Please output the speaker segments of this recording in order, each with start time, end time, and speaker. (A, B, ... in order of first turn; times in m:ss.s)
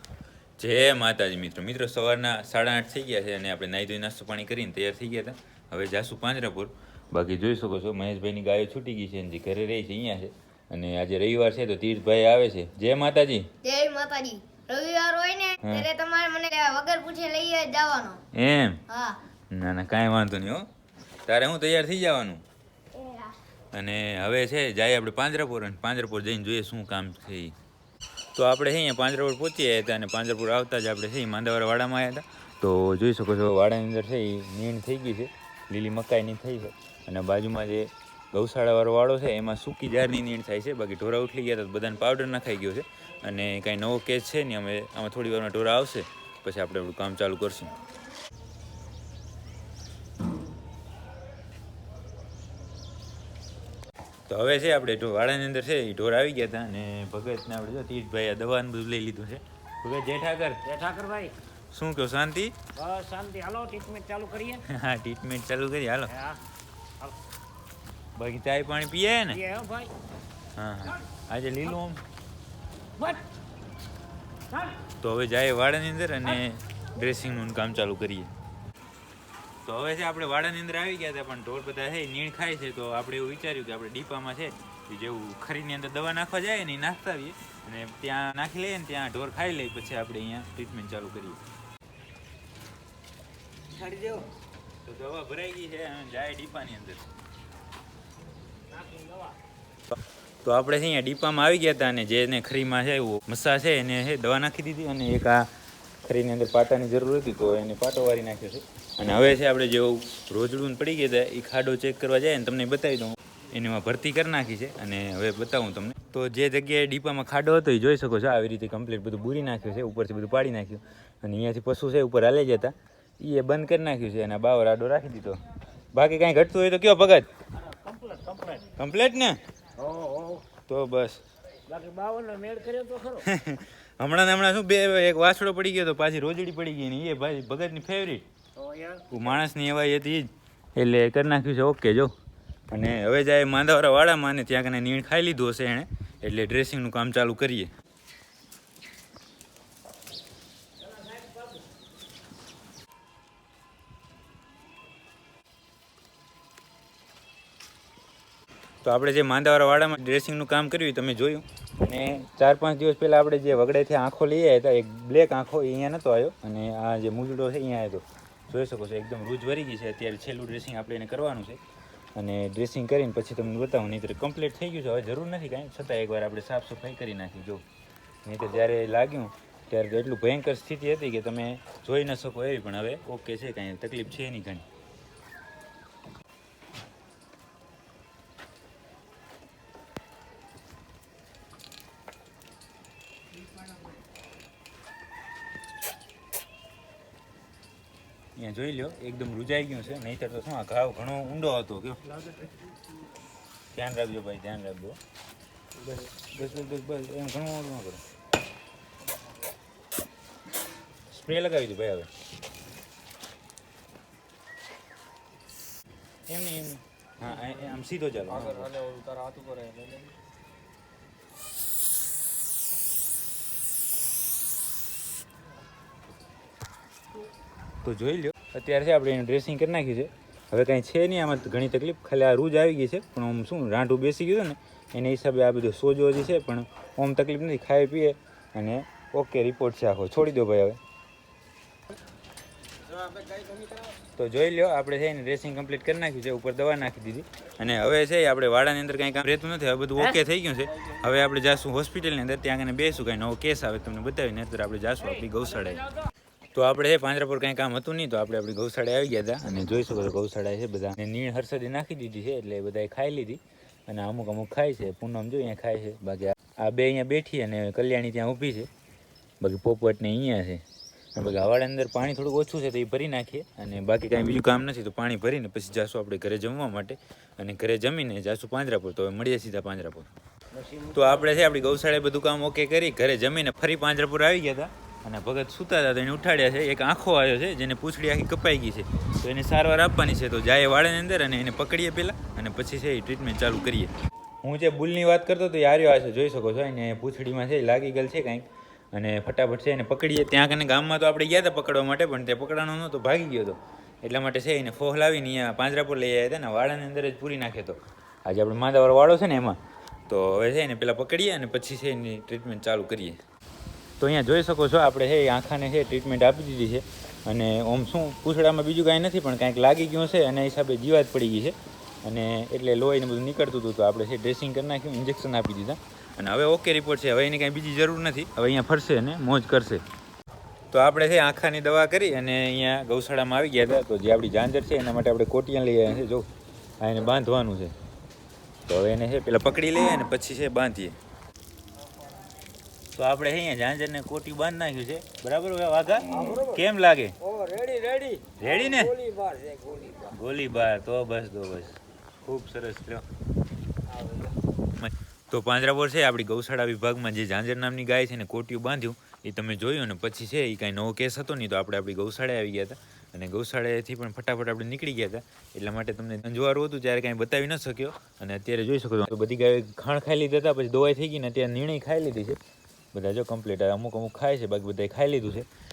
0:00.6-0:13.5 A
0:13.6-0:18.2 B
0:15.6-0:15.9 A
0:18.3-0:18.9 A
0:18.9-0:19.2 B
0:19.5-0:20.7 A
0:21.3-0:22.4 A
0:22.9-0:23.3 B
0:23.7-0:27.6 A
0:28.4-0:47.8 A
0:54.3-1:00.6 A
1:00.6-1:01.4 C
1:01.7-1:02.6 A
1:02.7-1:04.6 C
1:04.6-1:06.2 A
1:06.1-1:06.4 C
1:08.2-1:09.5 A
1:09.3-1:10.0 C
1:10.6-1:12.0 A
1:13.0-1:13.3 C
1:14.5-1:14.8 C
1:15.0-1:18.3 A
1:19.6-1:31.4 A
1:33.7-1:34.3 A
1:34.8-1:37.1 A
1:38.7-1:39.4 C
1:39.9-1:45.5 A
1:46.0-2:07.3 A
2:07.6-2:08.8 C
2:08.6-2:09.4 A
2:09.8-2:10.5 C
2:10.7-2:11.2 A
2:11.7-2:13.3 C
2:13.2-2:18.3 A
2:18.6-2:19.4 C
2:19.1-2:22.1 A
2:22.7-2:27.7 A
2:38.8-2:51.6 A
2:52.2-2:57.6 A
2:58.2-3:04.7 A
3:18.4-3:22.1 A
3:23.7-3:25.0 A
3:25.8-3:28.0 A
3:31.1-3:32.1 A
3:36.3-3:38.8 A
3:38.4-3:40.1 C
3:47.8-4:00.8 A
4:03.1-4:03.8 C
4:04.2-4:15.9 A
4:16.5-4:28.7 A
4:29.4-4:30.6 A
4:31.2-4:40.1 A
4:40.6-4:41.2 C
4:40.9-4:53.9 A
4:54.4-5:13.2 A
5:14.0-5:29.8 A
5:30.7-5:36.3 A
5:36.8-5:37.7 A
5:38.7-5:41.0 A
5:42.9-5:47.2 A
5:46.1-5:46.6 C
5:47.2-5:50.2 C
5:48.4-5:49.0 A
5:50.1-5:53.1 A
5:53.9-5:54.3 C
5:54.8-6:12.4 A
6:12.9-6:15.5 A